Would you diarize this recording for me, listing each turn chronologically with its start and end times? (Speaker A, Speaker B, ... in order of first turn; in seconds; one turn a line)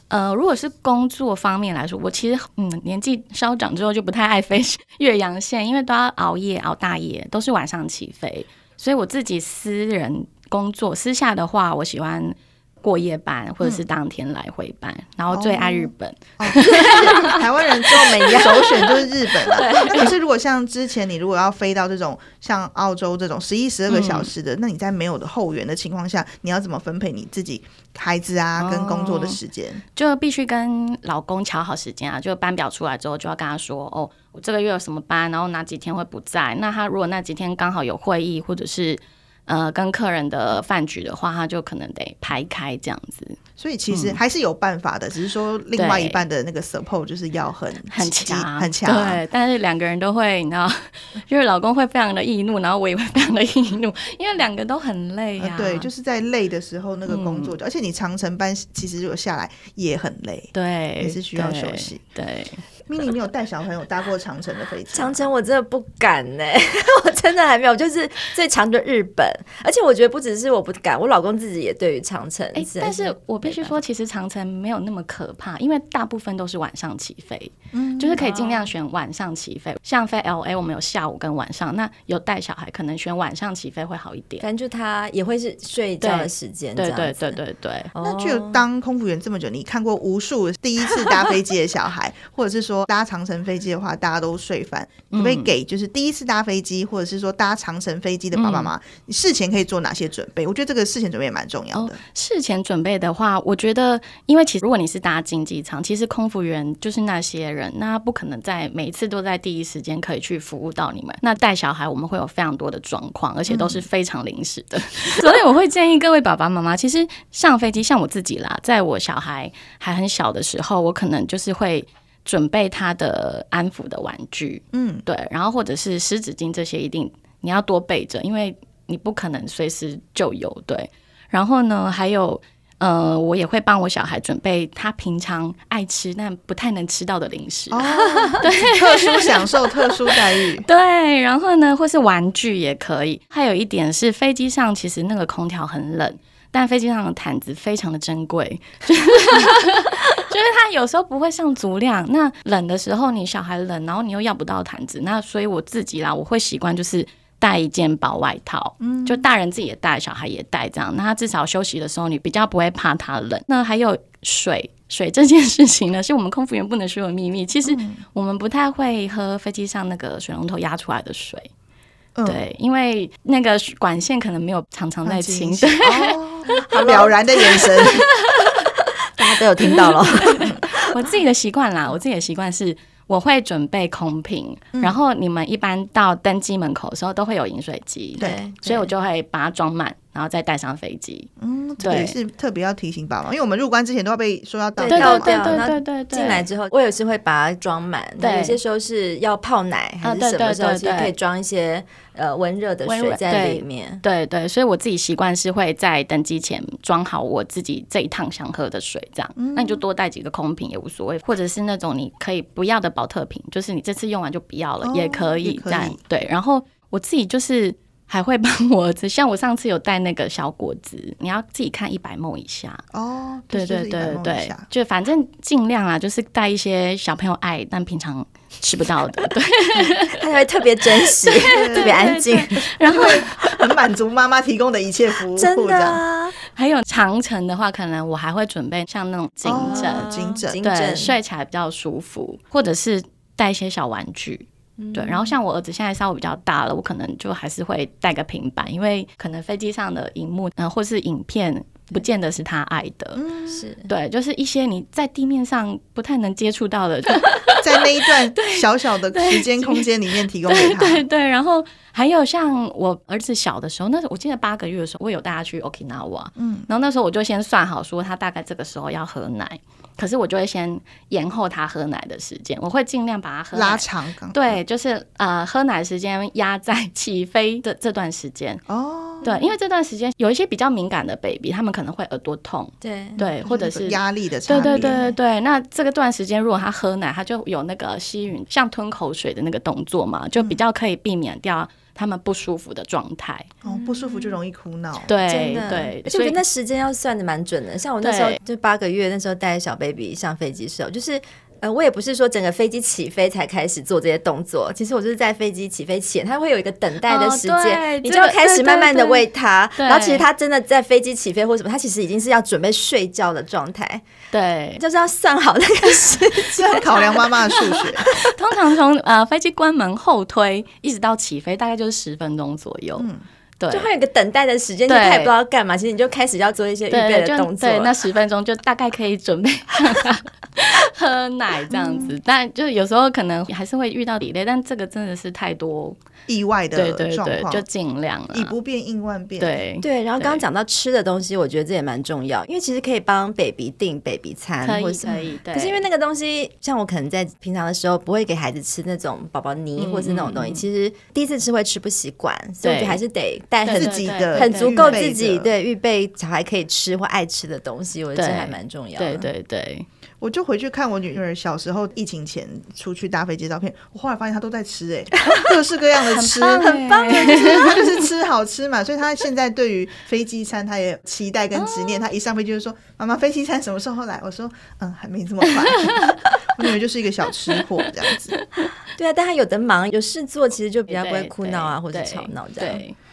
Speaker A: 0.1-18.8
Speaker B: 15.3-29.8
Speaker A: 19.4-20.1
Speaker A: 23.9-24.3
Speaker A: 28.6-29.4
Speaker A: 29.9-43.4
Speaker B: 43.6-49.2
Speaker A: 43.9-44.2
Speaker A: 45.8-46.2
Speaker A: 47.9-55.9
Speaker B: 55.4-62.0
Speaker A: 57.1-57.5
Speaker A: 60.5-62.6
Speaker B: 62.9-65.2
Speaker C: 64.9-73.8
Speaker A: 72.5-84.5
Speaker B: 77.7-78.2
Speaker C: 78.2-78.6
Speaker C: 84.4-87.4
Speaker A: 86.0-87.9
Speaker C: 87.9-88.6
Speaker B: 88.0-102.0
Speaker A: 95.1-95.5
Speaker A: 98.3-98.7
Speaker A: 101.7-171.5
Speaker B: 113.5-113.8
Speaker B: 124.7-125.0
Speaker B: 137.7-140.7
Speaker B: 158.8-159.3
Speaker B: 167.7-168.0
Speaker B: 172.2-172.4
Speaker A: 172.2-176.2
Speaker B: 175.1-178.1
Speaker C: 176.7-177.2
Speaker A: 177.8-178.6
Speaker C: 179.0-180.9
Speaker A: 179.7-191.3
Speaker C: 188.2-188.9
Speaker B: 191.4-195.6
Speaker A: 191.8-192.2
Speaker C: 194.8-204.0
Speaker A: 194.8-196.5
Speaker A: 198.2-198.6
Speaker A: 200.0-201.1
Speaker A: 202.8-222.8
Speaker B: 209.4-209.8
Speaker B: 214.8-216.0
Speaker B: 222.9-224.7
Speaker A: 223.5-230.2
Speaker C: 230.1-232.7
Speaker A: 231.1-233.3
Speaker B: 231.5-236.0
Speaker C: 235.3-236.3
Speaker A: 236.5-253.2
Speaker B: 239.4-240.6
Speaker C: 239.6-241.2
Speaker C: 244.8-245.3
Speaker B: 253.2-253.6
Speaker C: 253.5-253.9
Speaker A: 253.9-259.9
Speaker B: 257.6-261.0
Speaker A: 260.5-278.6
Speaker B: 266.4-266.7
Speaker B: 273.5-274.6
Speaker B: 278.7-279.3
Speaker A: 279.2-293.5
Speaker C: 282.8-283.2
Speaker B: 283.4-285.1
Speaker C: 284.6-285.1
Speaker B: 293.6-295.1
Speaker C: 293.6-294.4
Speaker A: 295.1-296.4
Speaker C: 295.3-314.1
Speaker A: 298.0-298.4
Speaker A: 307.1-309.3
Speaker A: 309.8-310.2
Speaker A: 314.3-314.8
Speaker C: 314.8-318.3
Speaker B: 316.4-318.1
Speaker A: 318.1-323.1
Speaker B: 323.0-323.2
Speaker A: 323.6-323.9
Speaker C: 323.7-327.9
Speaker A: 324.9-325.3
Speaker A: 326.9-336.0
Speaker B: 331.7-332.1
Speaker B: 336.3-337.6
Speaker A: 336.8-338.5
Speaker B: 338.3-339.6
Speaker A: 339.4-340.4
Speaker C: 339.8-359.3
Speaker A: 344.6-345.9
Speaker A: 349.8-350.6
Speaker A: 352.6-353.0
Speaker A: 353.6-355.0
Speaker B: 353.7-355.5
Speaker A: 358.1-359.9
Speaker B: 360.2-378.4
Speaker A: 366.1-367.8
Speaker C: 366.6-367.8
Speaker A: 371.6-372.0
Speaker A: 375.8-376.1
Speaker A: 378.3-378.7
Speaker C: 379.0-382.8
Speaker A: 380.9-382.9